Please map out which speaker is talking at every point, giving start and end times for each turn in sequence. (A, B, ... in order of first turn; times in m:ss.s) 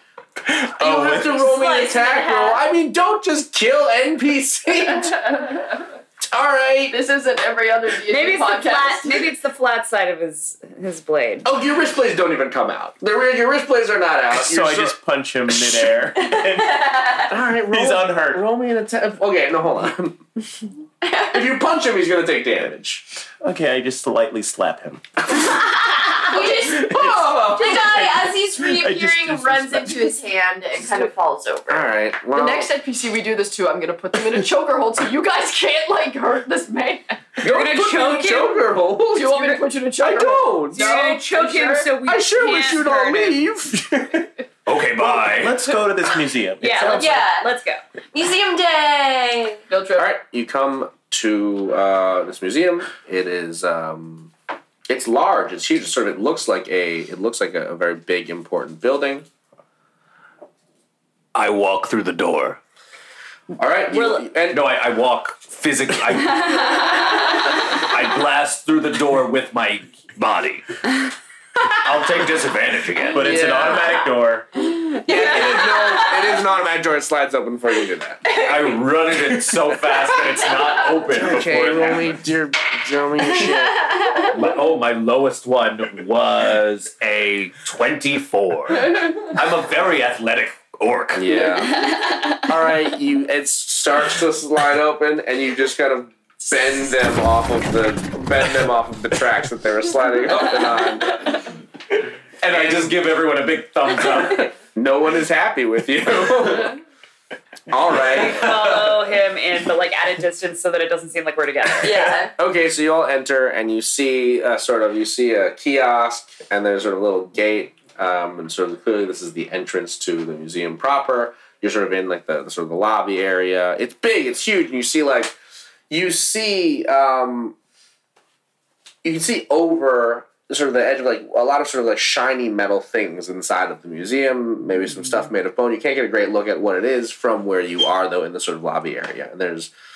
0:00.5-0:01.4 A
0:00.8-0:05.4 B
0:01.3-0:02.6 C
0:06.2-0:07.0 B
0:06.9-0:09.3 D
0:08.1-0:11.5 E
0:11.4-0:15.0 B
0:14.3-0:18.4 A
0:15.5-0:15.8 B
0:16.3-0:17.2 C
0:17.3-0:20.3 B
0:21.0-0:21.3 C
0:21.3-0:23.1 B
0:23.4-0:25.0 A
0:26.2-0:26.9 C
0:26.3-0:27.9 B
0:26.8-0:30.2 A
0:27.5-0:31.9 C
0:31.7-0:32.7 B
0:32.3-0:37.2 D
0:37.4-0:40.9 B
0:37.4-0:38.7 E
0:39.1-0:41.9 D
0:40.7-0:43.5 E
0:42.0-0:44.2 B
0:44.0-0:44.2 A
0:44.7-0:45.6 F
0:45.0-0:47.2 A
0:46.6-0:47.8 E
0:46.9-0:47.5 C
0:48.1-0:49.6 C
0:49.7-0:50.1 D
0:50.0-0:54.3 B
0:54.9-0:59.2 B
1:01.3-1:02.6 F
1:03.6-1:04.6 B
1:03.9-1:04.3 E
1:04.5-1:10.7 F
1:11.6-1:13.6 F
1:13.1-1:14.5 A
1:13.3-1:13.7 B
1:14.9-1:18.4 B
1:15.0-1:16.4 C
1:18.4-1:22.2 F
1:21.1-1:24.3 B
1:23.8-1:24.3 C
1:24.2-1:31.4 F
1:31.1-1:41.5 B
1:42.4-1:44.5 F
1:42.5-1:43.0 B
1:44.1-1:46.8 B
1:47.7-1:48.9 B
1:48.1-1:52.2 E
1:51.8-1:52.3 C
1:52.4-2:05.4 B
2:05.9-2:07.6 B
2:09.0-2:19.7 B